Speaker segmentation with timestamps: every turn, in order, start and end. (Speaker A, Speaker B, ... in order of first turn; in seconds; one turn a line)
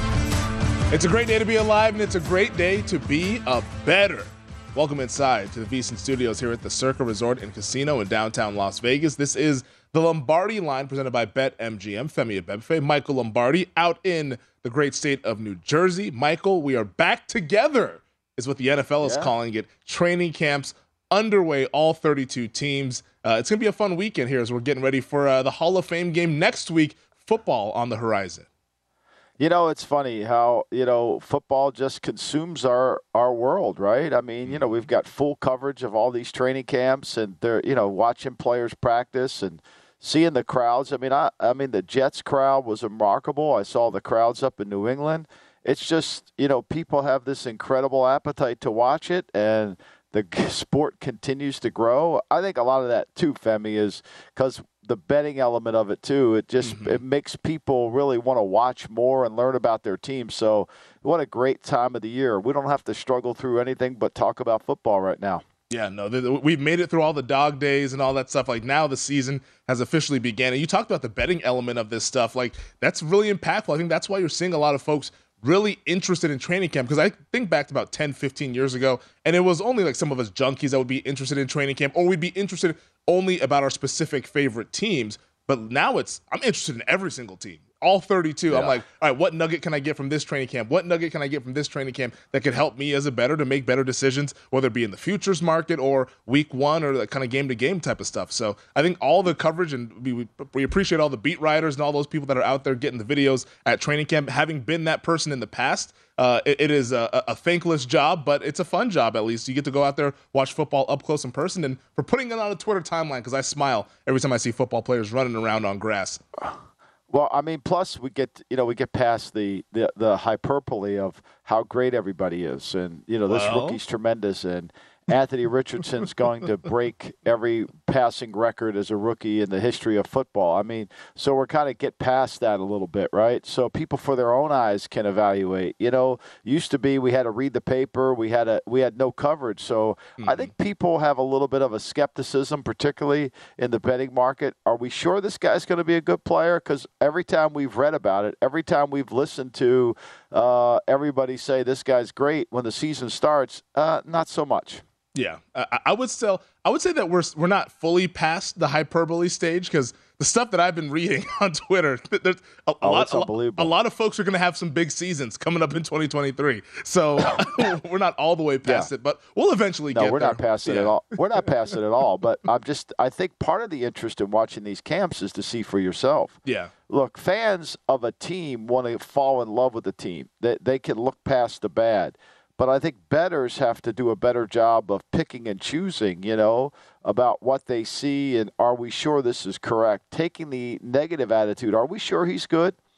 Speaker A: 0.9-28.5
Speaker B: 19.0-19.3
Speaker B: 29.4-65.4
Speaker A: 56.6-57.0
Speaker A: 65.7-116.2
Speaker B: 117.1-154.8
Speaker A: 123.3-123.8
Speaker A: 140.2-140.5
Speaker A: 155.1-171.0
Speaker B: 162.8-163.7
Speaker B: 168.7-168.9
Speaker B: 169.9-176.4
Speaker A: 176.4-176.7
Speaker B: 176.9-192.8